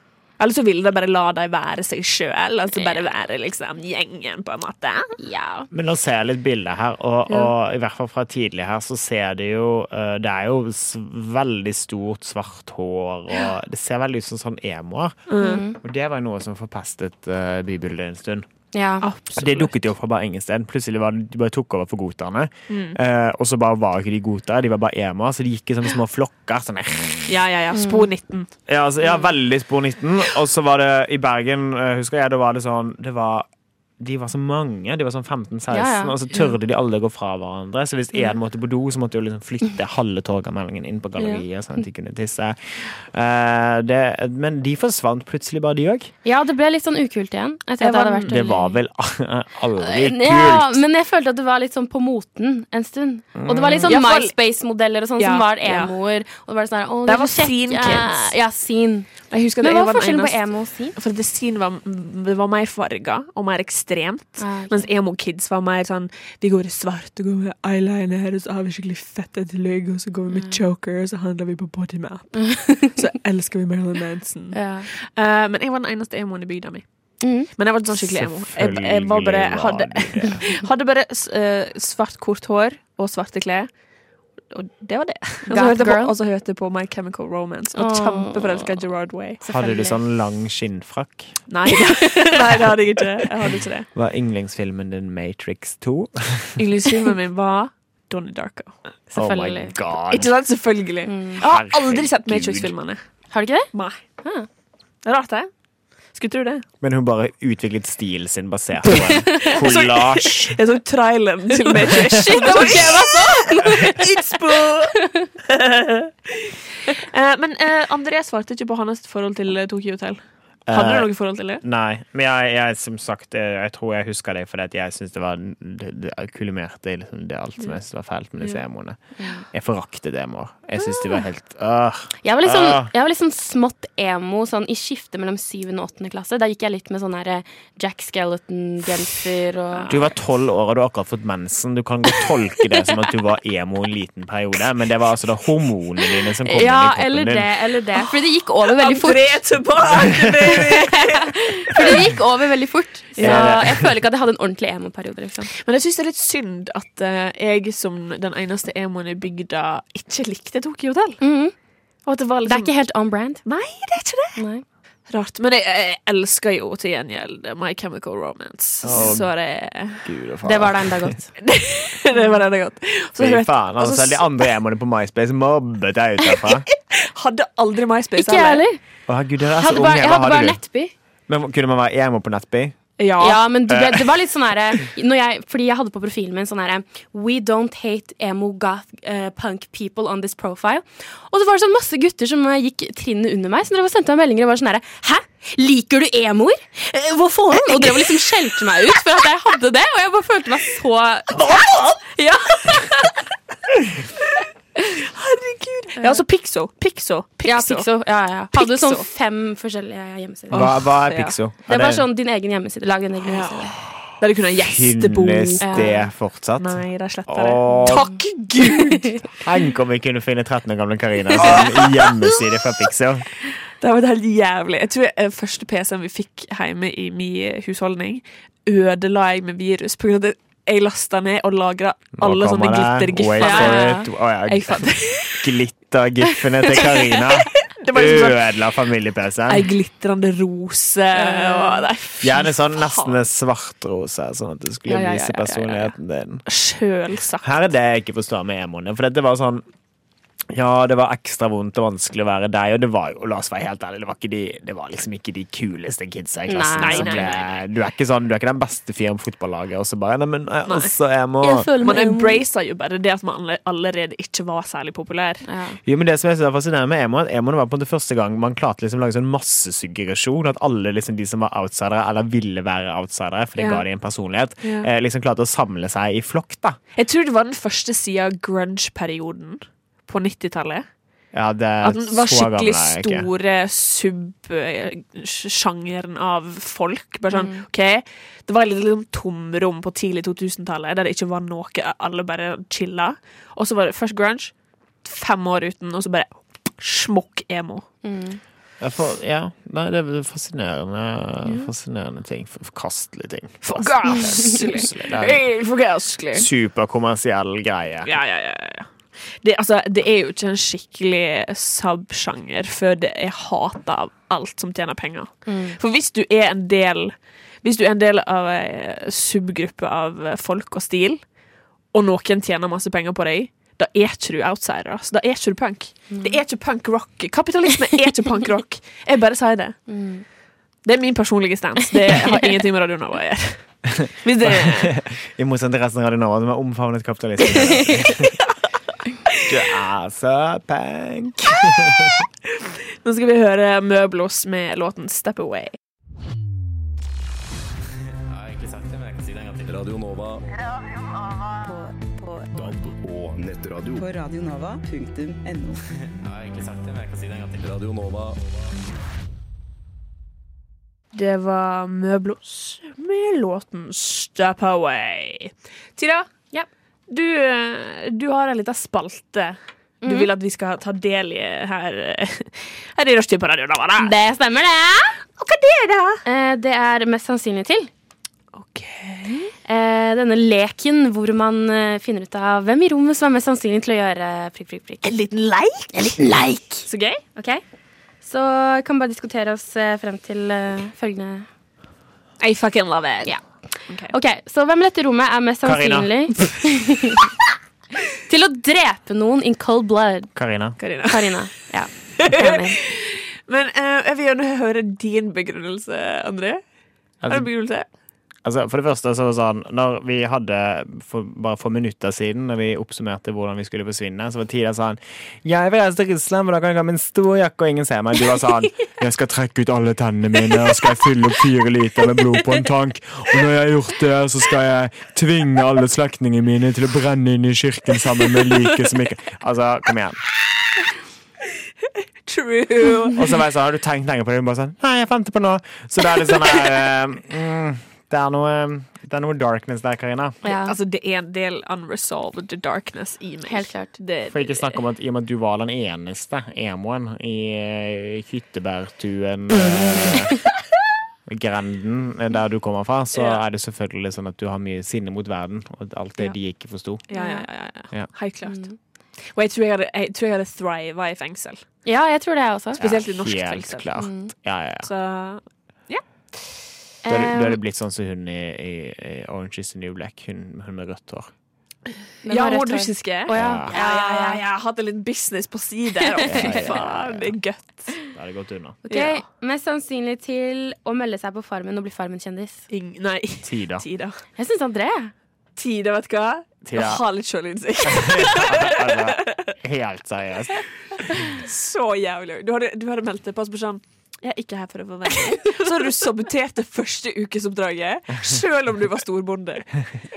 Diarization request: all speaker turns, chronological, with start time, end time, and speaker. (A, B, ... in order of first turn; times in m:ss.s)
0:00.4-0:05.1 A
0:02.7-0:03.1 B
0:05.2-0:05.7 B
0:05.7-0:15.2 C
0:15.3-0:15.6 A
0:15.4-0:15.8 B
0:15.8-0:18.4 C
0:18.7-0:19.1 B
0:19.0-0:19.7 A
0:19.4-0:27.4 C
0:22.7-0:23.0 A
0:27.3-0:28.5 A
0:27.7-0:28.0 B
0:28.7-0:33.5 C
0:34.0-0:46.1 C
0:35.7-0:36.1 B
0:46.2-0:48.8 B
0:47.8-0:48.3 A
0:48.2-0:50.8 C
0:49.8-1:00.9 B
0:53.3-0:54.0 C
0:53.8-0:54.4 A
0:55.2-0:55.9 A
0:57.0-0:58.3 A
0:59.3-1:16.8 A
1:04.4-1:04.9 B
1:10.3-1:10.6 B
1:12.4-1:13.0 B
1:14.5-1:14.9 B
1:17.2-1:17.5 B
1:17.5-1:23.7 A
1:17.9-1:20.4 C
1:24.5-1:29.4 A
1:25.5-1:26.1 B
1:27.8-1:28.7 B
1:29.4-1:30.0 B
1:29.5-1:31.4 C
1:31.5-1:33.9 A
1:33.9-1:36.6 C
1:36.6-1:38.8 A
1:39.1-1:39.7 B
1:39.1-1:40.3 C
1:40.1-1:43.0 A
1:41.1-1:41.4 B
1:41.4-1:42.7 C
1:43.3-1:43.7 B
1:43.7-1:44.0 A
1:44.2-1:44.5 B
1:45.0-1:45.5 A
1:46.1-1:46.6 A
1:46.8-1:50.6 C
1:48.9-2:00.2 A
1:51.9-1:52.8 C
1:52.1-1:54.1 B
1:55.0-1:55.3 B
2:00.7-2:12.9 C
2:00.7-2:01.6 A
2:09.2-2:09.4 B
2:10.8-2:11.2 B
2:12.2-2:19.9 B
2:19.9-2:27.5 C
2:26.4-2:29.4 B
2:28.7-2:32.1 A
2:30.7-2:35.5 B
2:33.2-2:33.7 A
2:33.2-2:33.9 C
2:35.5-2:41.2 A
2:41.2-2:41.5 B
2:42.0-2:42.7 A
2:42.4-2:43.4 B
2:43.4-2:44.4 A
2:44.4-2:44.6 B
2:45.1-2:50.0 A
2:48.8-2:49.3 C
2:50.0-2:51.2 C
2:50.4-2:51.3 B
2:51.4-2:54.4 A
2:53.2-2:56.7 C
2:56.9-2:58.6 A
2:58.2-2:58.8 B
2:59.1-3:00.6 C
2:59.6-3:00.9 B
3:01.3-3:02.8 C
3:03.0-3:03.5 A
3:03.2-3:23.1 B
3:03.7-3:04.1 C
3:17.5-3:18.2 A
3:21.3-3:22.1 A
3:24.3-3:27.9 A
3:26.0-3:26.2 B
3:27.4-3:30.7 B
3:28.5-3:29.1 A
3:30.5-3:31.4 A
3:30.5-3:32.0 C
3:31.7-3:33.7 B
3:33.2-3:36.0 A
3:34.6-3:38.1 C
3:35.6-3:36.0 B
3:36.6-3:39.1 A
3:37.7-3:38.2 B
3:39.4-3:43.3 C
3:41.4-3:42.1 A
3:43.8-3:53.9 A
3:52.2-3:59.7 C
3:53.4-3:54.1 B
3:54.4-3:55.4 A
3:56.7-3:58.6 A
3:59.5-4:03.2 A
4:01.1-4:01.8 B
4:02.2-4:06.4 C
4:04.9-4:05.9 A
4:06.4-4:07.5 A
4:07.4-4:09.6 C
4:10.5-4:21.7 C
4:16.5-4:17.3 B
4:16.8-4:17.4 A
4:20.7-4:20.9 A
4:21.4-4:22.4 B
4:21.8-4:25.4 A
4:25.4-4:25.8 B
4:25.8-4:36.8 C
4:37.0-4:40.8 A
4:41.3-4:43.3 C
4:41.8-4:54.5 A
4:47.3-4:47.6 B
4:55.0-4:57.9 A
4:58.0-4:58.4 B
4:58.8-5:05.4 C
5:03.6-5:06.5 A
5:06.3-5:08.1 C
5:08.0-5:21.2 A
5:15.5-5:15.8 B
5:21.9-5:29.8 A
5:26.1-5:26.4 B
5:29.9-5:30.2 B
5:30.8-5:34.9 A
5:34.4-5:38.4 C
5:39.4-5:42.2 C
5:43.0-5:45.7 A
5:49.6-5:50.4 D
5:51.6-5:52.8 E
5:52.5-5:54.0 D
5:54.0-5:55.8 E
5:57.5-5:58.6 D
6:01.1-6:06.3 A
6:07.1-6:14.1 A
6:10.0-6:10.3 B
6:14.0-6:15.1 B
6:15.4-6:16.2 A
6:16.2-6:17.9 B
6:18.5-6:19.5 A
6:19.6-6:25.1 B
6:25.0-6:27.2 A
6:26.0-6:26.8 B
6:27.4-6:27.6 B
6:28.2-6:31.5 B
6:32.4-6:33.4 A
6:33.9-6:34.1 A
6:34.1-6:37.2 B
6:35.6-6:36.5 C
6:38.3-6:40.3 B
6:40.3-6:40.8 C
6:40.8-6:41.4 A
6:41.0-6:42.8 B
6:42.2-6:46.6 A
6:47.2-6:47.5 C
6:47.3-6:47.8 A
6:48.4-7:10.2 C
7:12.2-7:13.2 A
7:13.2-7:20.4 C
7:20.4-7:20.7 B
7:20.4-7:24.8 A
7:23.5-7:23.9 B
7:24.3-7:30.3 C
7:31.3-7:37.0 C
7:33.1-7:33.4 A
7:37.1-7:38.7 A
7:37.1-7:37.4 B
7:38.4-7:38.7 B
7:39.3-7:41.6 A
7:41.8-7:42.8 B
7:42.8-7:44.9 C
7:42.8-7:43.9 A
7:44.0-7:44.3 B
7:44.8-7:46.0 A
7:47.0-7:47.6 B
7:47.1-7:51.3 C
7:52.2-7:54.4 B
7:52.3-7:58.0 A
7:53.3-7:53.7 C
7:56.3-7:57.4 C
7:58.1-7:58.8 C
7:58.8-8:02.6 B
7:58.9-7:59.2 A
8:02.7-8:04.2 A
8:03.4-8:03.8 C
8:04.4-8:05.1 B
8:05.6-8:09.5 A
8:06.6-8:07.0 C
8:07.8-8:10.6 C
8:11.2-8:19.8 A